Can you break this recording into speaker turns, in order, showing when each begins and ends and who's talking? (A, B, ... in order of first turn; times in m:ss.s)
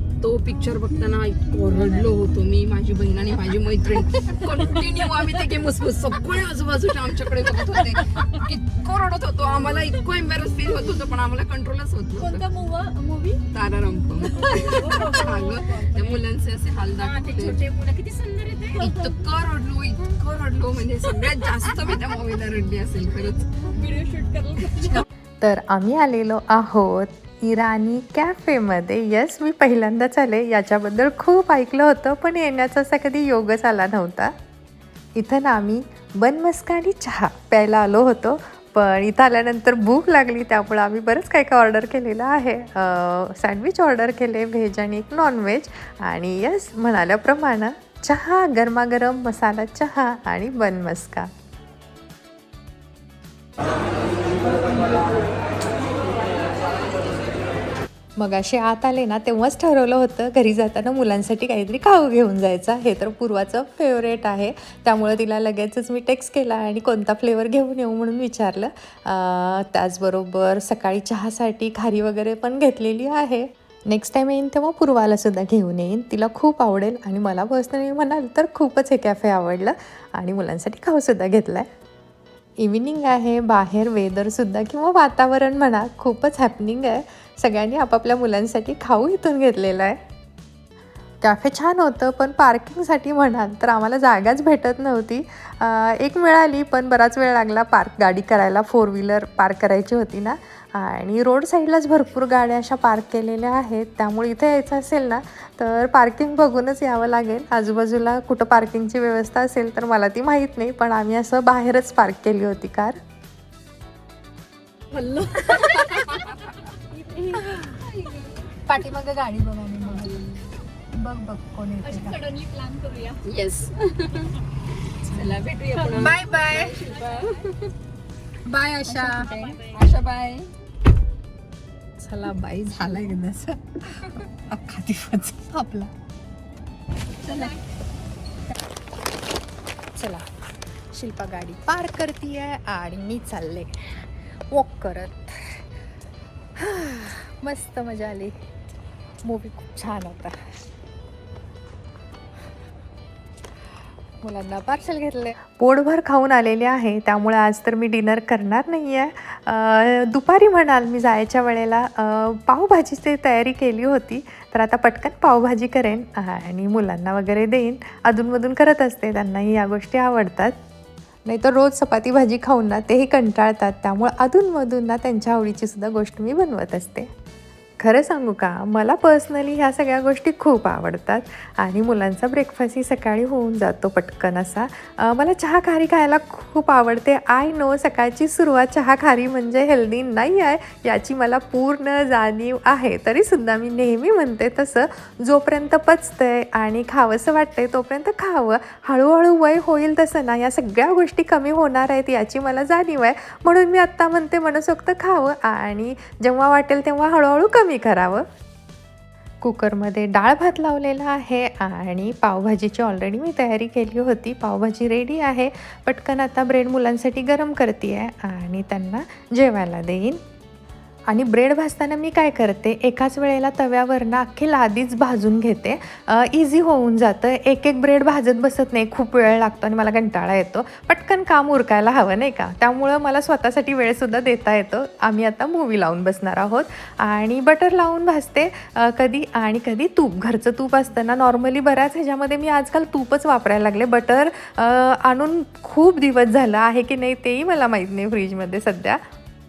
0:00.2-0:12.5 A
0:01.7-0:02.1 B
0:12.2-0:13.4 B
0:13.5-0:17.7 A
0:14.4-0:16.1 B
0:16.9-0:19.1 B
0:18.8-0:23.6 A
0:23.7-0:25.0 B
0:25.4-0:34.3 C
0:35.2-0:51.3 C
0:58.2-1:21.7 C
1:22.6-1:30.0 C
1:31.2-1:53.0 C
1:54.9-1:56.2 B
1:55.4-1:56.3 A
1:56.9-1:57.6 B
1:57.6-1:58.3 A
1:58.7-2:00.4 C
2:00.9-2:02.2 C
2:01.8-2:03.2 B
2:03.2-2:04.4 A
2:05.0-2:07.7 A
2:05.9-2:06.1 B
2:06.0-2:06.7 C
2:06.8-2:07.4 B
2:08.5-2:09.6 C
2:08.9-2:09.8 B
2:09.7-2:10.5 A
2:12.0-2:15.9 C
2:17.2-2:17.6 A
2:20.0-2:20.3 C
2:20.9-2:23.9 C
2:24.5-2:25.6 C
2:26.6-2:28.4 C
2:29.2-2:30.4 C
2:34.2-2:50.6 C
2:51.3-2:57.1 C
2:57.8-3:28.2 C
3:29.4-3:40.2 C
3:41.1-4:09.0 C